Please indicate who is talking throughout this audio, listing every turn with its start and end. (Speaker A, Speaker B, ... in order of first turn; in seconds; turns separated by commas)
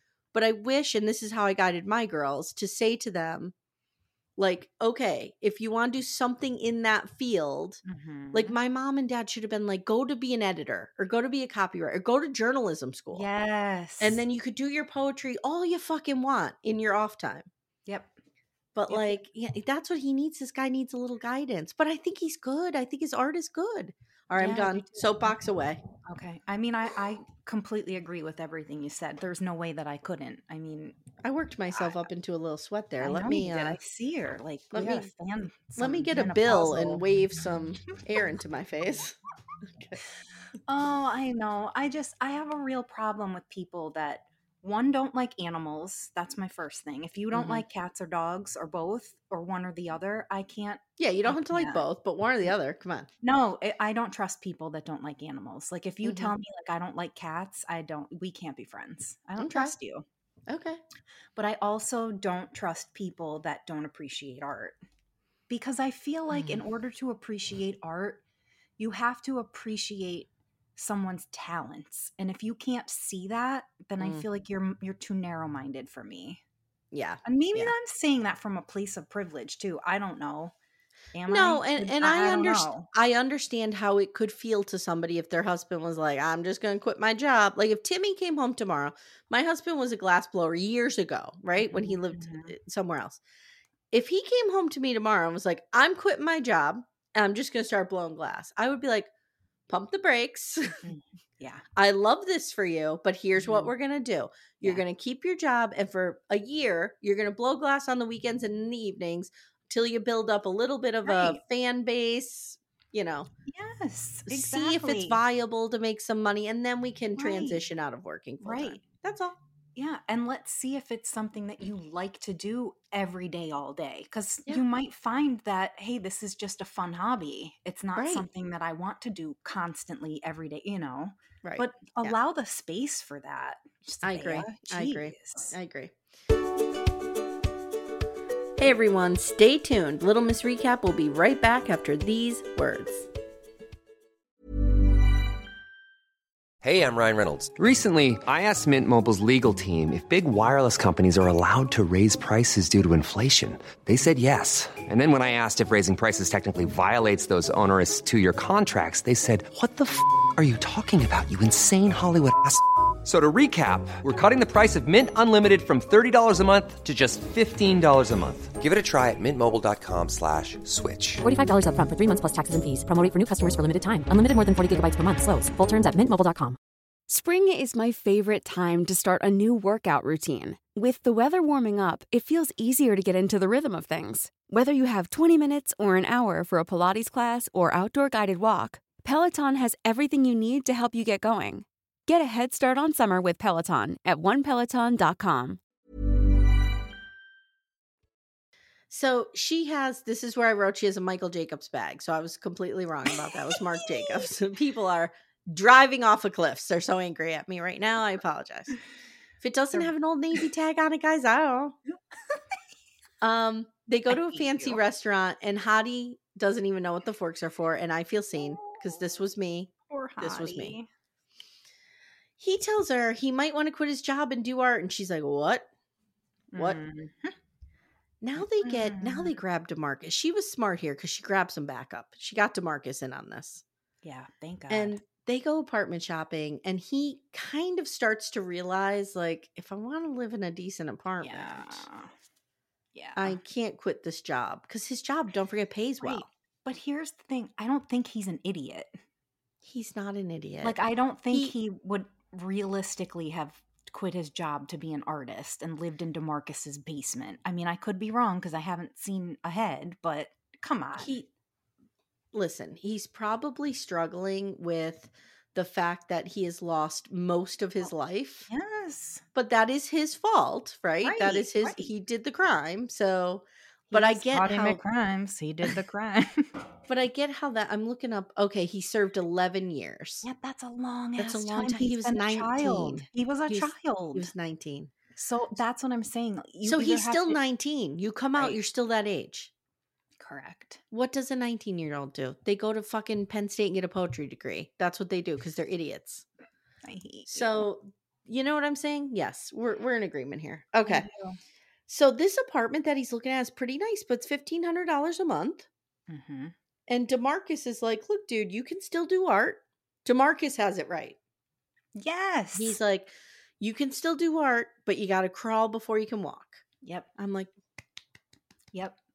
Speaker A: 0.3-3.5, Speaker A: 4.4-13.3, Speaker B: 7.8-8.6, Speaker B: 13.1-14.2, Speaker A: 14.0-17.5, Speaker B: 17.9-18.1, Speaker A: 18.7-25.8, Speaker B: 18.9-19.2, Speaker B: 24.4-25.4, Speaker B: 26.0-31.0, Speaker A: 31.2-33.8, Speaker B: 33.0-37.0, Speaker A: 34.7-35.1, Speaker A: 35.7-39.1, Speaker B: 40.7-51.9, Speaker A: 47.3-47.6, Speaker A: 51.0-53.1, Speaker B: 53.2-60.0, Speaker A: 56.0-56.3, Speaker A: 59.4-59.7, Speaker A: 60.5-60.8, Speaker B: 61.4-64.8, Speaker B: 65.5-68.2, Speaker A: 66.3-66.6, Speaker B: 68.8-76.4, Speaker A: 74.0-74.2, Speaker A: 76.9-77.7, Speaker B: 77.2-80.5, Speaker B: 81.1-82.9, Speaker A: 81.3-93.2, Speaker B: 91.6-92.6, Speaker A: 93.9-99.1, Speaker A: 99.7-100.8, Speaker B: 100.8-101.6, Speaker A: 101.8-113.3, Speaker B: 103.4-103.7, Speaker B: 111.0-111.4, Speaker B: 113.5-115.2, Speaker A: 114.3-119.4, Speaker B: 117.2-117.7, Speaker B: 118.4-118.8, Speaker B: 119.8-135.6, Speaker A: 128.0-128.3, Speaker A: 131.4-132.2, Speaker A: 134.0-135.9, Speaker A: 138.6-143.1, Speaker C: 146.6-171.2, Speaker D: 171.2-176.6, Speaker E: 177.1-195.6, Speaker A: 198.9-208.7, Speaker A: 209.4-211.8, Speaker B: 211.9-212.4, Speaker A: 213.2-220.8, Speaker B: 214.1-214.8, Speaker B: 218.6-219.0, Speaker B: 219.9-220.9, Speaker A: 222.4-225.7, Speaker B: 226.5-227.3, Speaker A: 228.2-233.6, Speaker B: 228.6-229.3, Speaker B: 234.0-235.0, Speaker A: 234.7-241.9, Speaker B: 241.2-242.1, Speaker B: 242.9-243.4, Speaker A: 243.2-246.3, Speaker B: 246.0-249.0, Speaker A: 249.6-250.8, Speaker B: 250.6-261.1, Speaker A: 261.0-261.3, Speaker A: 262.3-268.5, Speaker B: 268.5-269.2, Speaker A: 269.3-274.8, Speaker B: 271.0-271.9, Speaker B: 273.9-276.5, Speaker A: 276.9-280.2, Speaker B: 280.2-284.3, Speaker A: 281.2-284.9, Speaker B: 285.1-287.4, Speaker A: 286.6-289.5, Speaker B: 290.2-290.8, Speaker A: 290.9-296.2, Speaker B: 296.8-297.7, Speaker A: 297.3-301.1, Speaker B: 300.8-301.4, Speaker A: 301.9-305.7, Speaker B: 306.1-306.5, Speaker A: 306.9-311.2, Speaker B: 311.9-312.8, Speaker A: 312.5-316.6, Speaker B: 316.8-317.1, Speaker A: 317.1-317.5, Speaker B: 318.7-319.0